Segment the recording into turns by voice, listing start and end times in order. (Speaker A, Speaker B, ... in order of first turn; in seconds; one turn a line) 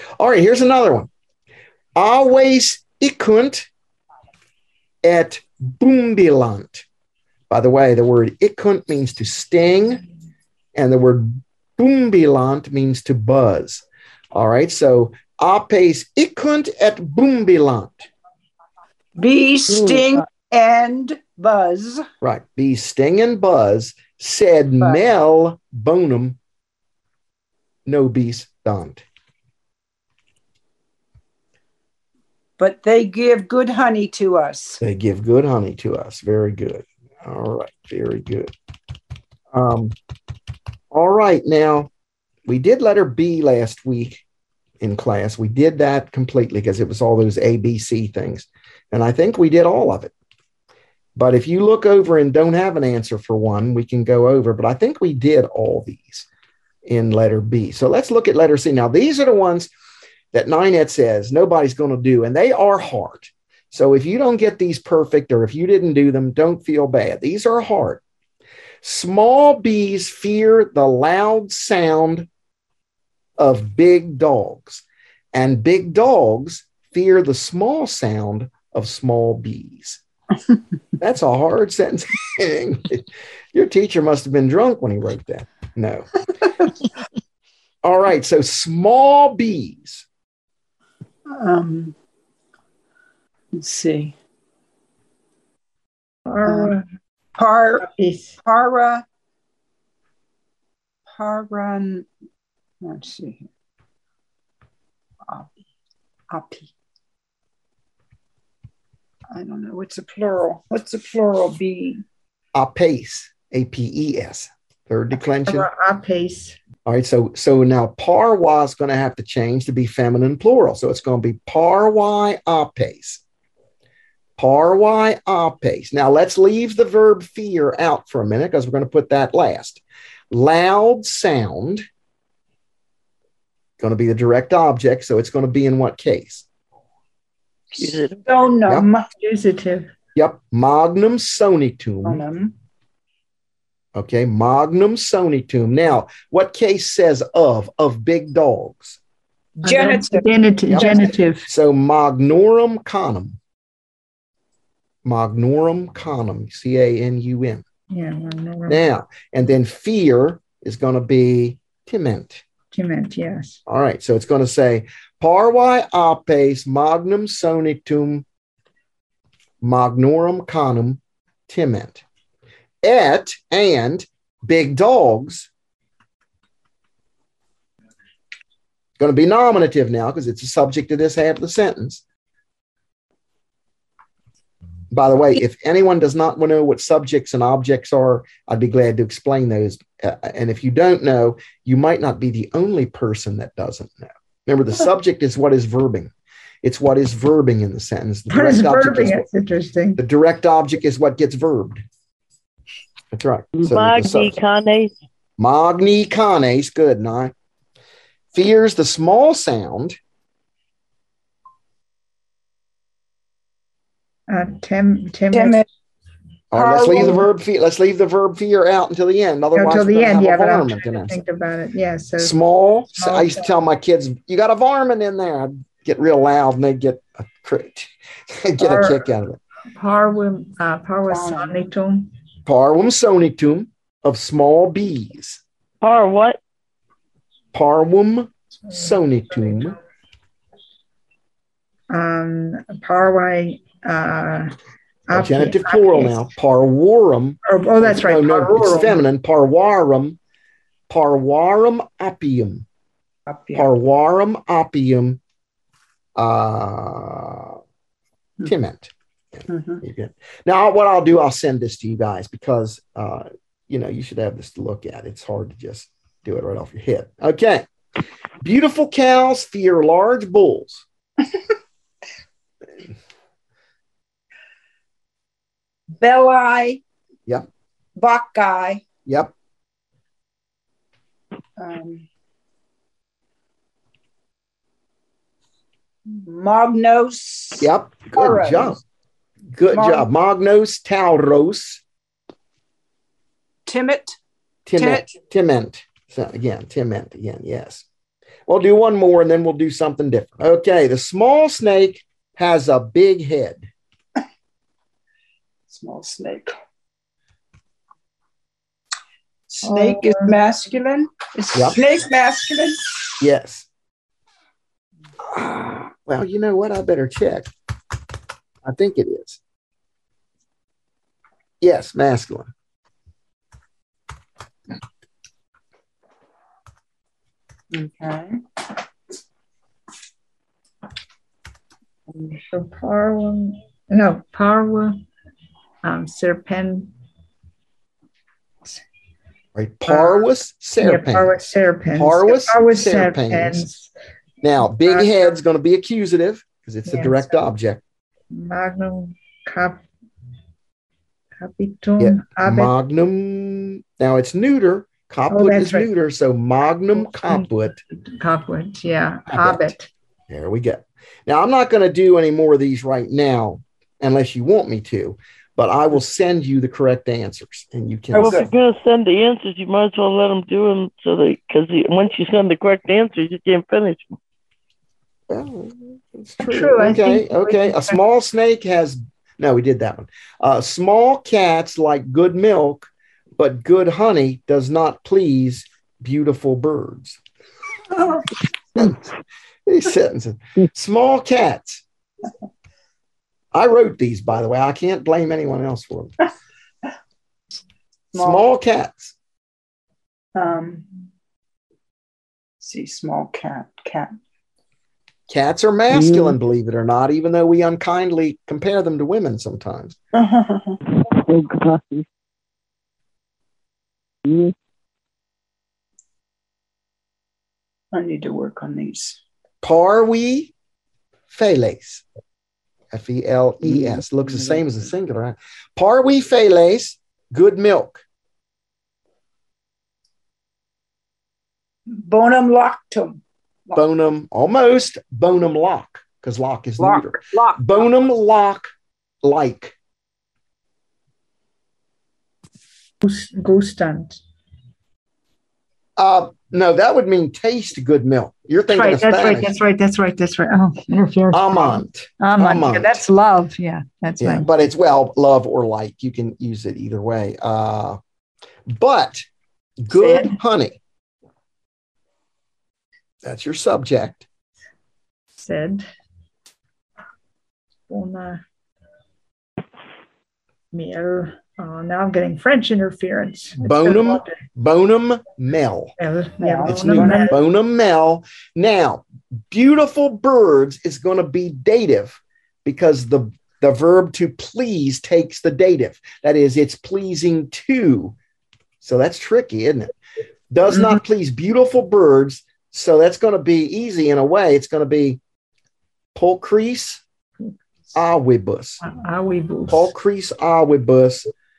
Speaker A: 0.2-1.1
Speaker A: 1.9-3.7
Speaker A: 5.0-6.8
Speaker A: 7.5-10.0
Speaker A: 10.7-18.1
Speaker B: 19.2-22.0
Speaker C: 19.7-20.2
Speaker A: 22.2-26.4
Speaker A: 27.9-29.0
Speaker B: 32.6-34.8
Speaker A: 34.8-38.5
Speaker A: 39.5-39.9
Speaker A: 40.9-41.9
Speaker A: 42.5-44.2
Speaker A: 44.8-50.1
Speaker A: 51.1-56.3
Speaker A: 56.8-59.7
Speaker A: 60.3-68.0
Speaker A: 68.8-72.3
Speaker A: 73.4-80.0
Speaker A: 81.0-86.1
Speaker A: 87.8-90.0
Speaker B: 91.3-91.9
Speaker B: 93.5-94.1
Speaker D: 96.3-96.8
Speaker B: 96.4-96.7
Speaker B: 97.4-97.9
Speaker D: 97.8-98.4
Speaker B: 98.4-99.0
Speaker B: 101.1-102.0
Speaker B: 102.8-103.5
Speaker B: 106.3-106.7
Speaker B: 109.3-112.0
Speaker A: 112.5-115.7
Speaker D: 115.4-116.6
Speaker A: 116.8-123.2
Speaker A: 124.4-131.8
Speaker A: 133.8-136.4
Speaker B: 137.7-139.1
Speaker E: 137.8-138.2
Speaker D: 139.2-139.9
Speaker A: 140.1-142.3
Speaker B: 142.0-142.5
Speaker A: 143.9-149.0
Speaker D: 149.6-151.4
Speaker B: 149.6-151.1
Speaker A: 150.7-153.4
Speaker A: 155.0-157.6
Speaker D: 157.9-158.8
Speaker A: 158.7-162.4
Speaker D: 162.7-163.6
Speaker A: 163.7-168.2
Speaker A: 169.6-172.0
Speaker A: 172.8-175.5
Speaker A: 179.0-182.0
Speaker A: 184.9-196.1
Speaker A: 196.6-199.2
Speaker D: 198.3-200.0
Speaker A: 200.0-201.8
Speaker A: 203.1-204.4
Speaker E: 203.6-204.9
Speaker A: 205.4-207.3
Speaker A: 208.3-210.0
Speaker D: 214.3-215.6
Speaker B: 215.3-215.6
Speaker A: 216.5-221.2
Speaker B: 216.5-217.2
Speaker D: 219.5-222.3
Speaker A: 222.2-229.4
Speaker D: 222.9-223.5
Speaker D: 228.6-229.0
Speaker D: 229.8-232.1
Speaker B: 231.1-231.6
Speaker A: 232.4-235.4
Speaker E: 235.8-236.4
Speaker A: 237.5-239.8
Speaker D: 238.7-239.8
Speaker D: 241.9-244.5
Speaker D: 245.1-246.2
Speaker A: 245.1-250.2
Speaker D: 247.4-249.0
Speaker A: 250.9-252.7
Speaker B: 253.3-253.7
Speaker A: 253.5-255.2
Speaker A: 256.1-257.6
Speaker A: 258.4-267.7
Speaker B: 259.5-259.8
Speaker A: 268.4-270.9
Speaker B: 276.0-276.8
Speaker B: 278.0-278.8
Speaker A: 279.1-279.3
Speaker B: 281.6-282.1
Speaker B: 286.2-288.8
Speaker A: 287.6-288.8
Speaker A: 289.5-291.8
Speaker B: 289.7-290.1
Speaker B: 293.6-294.2
Speaker A: 294.6-297.8
Speaker B: 294.8-295.1
Speaker A: 298.5-303.7
Speaker B: 305.7-306.6
Speaker B: 309.5-312.8
Speaker D: 309.6-310.3
Speaker A: 311.5-311.8
Speaker A: 313.2-313.7
Speaker A: 315.3-317.5
Speaker A: 318.6-319.4
Speaker A: 321.6-322.5
Speaker B: 327.7-328.4
Speaker D: 332.5-335.0
Speaker D: 335.8-336.9
Speaker A: 339.5-341.4
Speaker D: 339.9-340.3
Speaker D: 340.8-343.9
Speaker A: 341.9-343.7
Speaker A: 344.4-347.8
Speaker D: 344.8-345.3
Speaker D: 346.9-347.3
Speaker D: 348.3-349.8
Speaker D: 351.4-352.7
Speaker A: 352.0-357.8
Speaker D: 355.3-355.9
Speaker D: 356.9-359.9
Speaker A: 359.3-359.7
Speaker A: 360.3-368.5
Speaker D: 368.1-368.5
Speaker E: 368.2-374.1
Speaker A: 375.3-387.2
Speaker D: 376.4-378.0
Speaker A: 388.8-389.1
Speaker A: 389.6-391.8
Speaker A: 393.5-396.1
Speaker B: 398.1-398.4
Speaker A: 398.1-399.1
Speaker B: 400.3-400.9
Speaker B: 402.6-404.1
Speaker A: 405.3-409.9
Speaker C: 405.9-406.4
Speaker B: 410.1-410.8
Speaker C: 411.0-412.1
Speaker C: 414.2-414.5
Speaker B: 417.9-419.2
Speaker A: 419.6-420.5
Speaker A: 421.3-422.0
Speaker A: 422.9-428.0
Speaker B: 431.9-433.8
Speaker A: 433.8-438.7
Speaker B: 436.8-437.6
Speaker A: 439.2-439.7
Speaker D: 443.0-444.2
Speaker A: 446.0-449.5
Speaker D: 448.7-454.5
Speaker A: 451.3-453.0
Speaker A: 454.2-458.0
Speaker A: 458.7-459.2
Speaker A: 459.8-460.8
Speaker D: 459.9-460.3
Speaker A: 463.2-464.2
Speaker D: 465.4-465.9
Speaker D: 467.9-468.4
Speaker D: 470.7-474.4
Speaker A: 473.6-475.9
Speaker D: 476.0-477.4
Speaker B: 476.4-477.3
Speaker A: 476.6-488.1
Speaker A: 488.8-489.9
Speaker A: 490.5-495.2
Speaker A: 496.1-497.0
Speaker A: 497.9-498.8
Speaker D: 498.8-499.9
Speaker A: 499.7-501.3